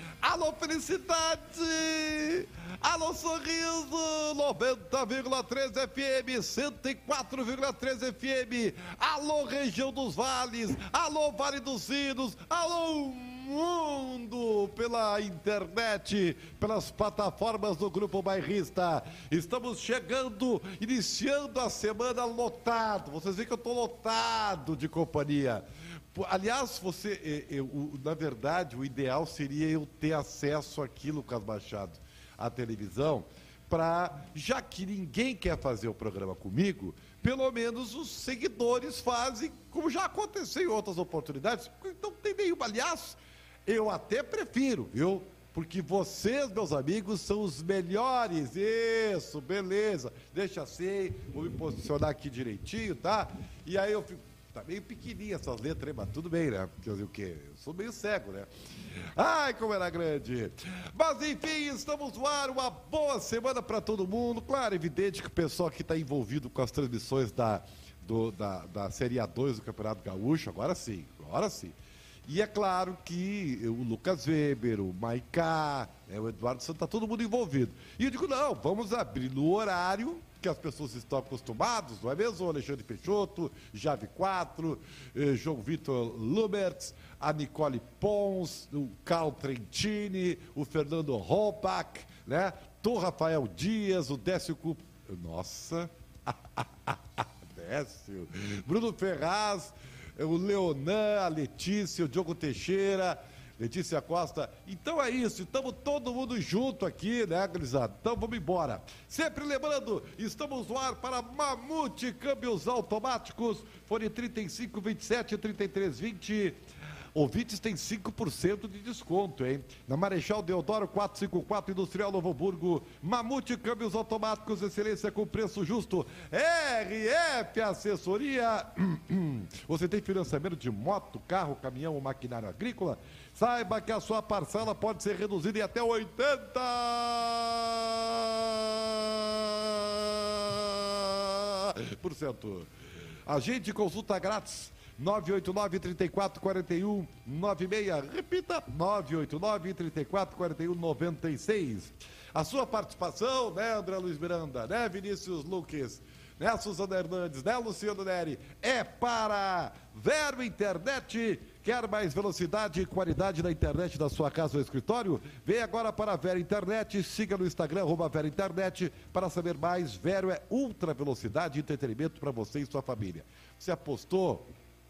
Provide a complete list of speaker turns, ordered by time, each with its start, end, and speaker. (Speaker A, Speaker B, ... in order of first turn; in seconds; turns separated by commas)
Speaker A: 0.2-58.5, Speaker A: 59.1-116.6, Speaker A: 117.1-142.7, Speaker A: 143.2-174.5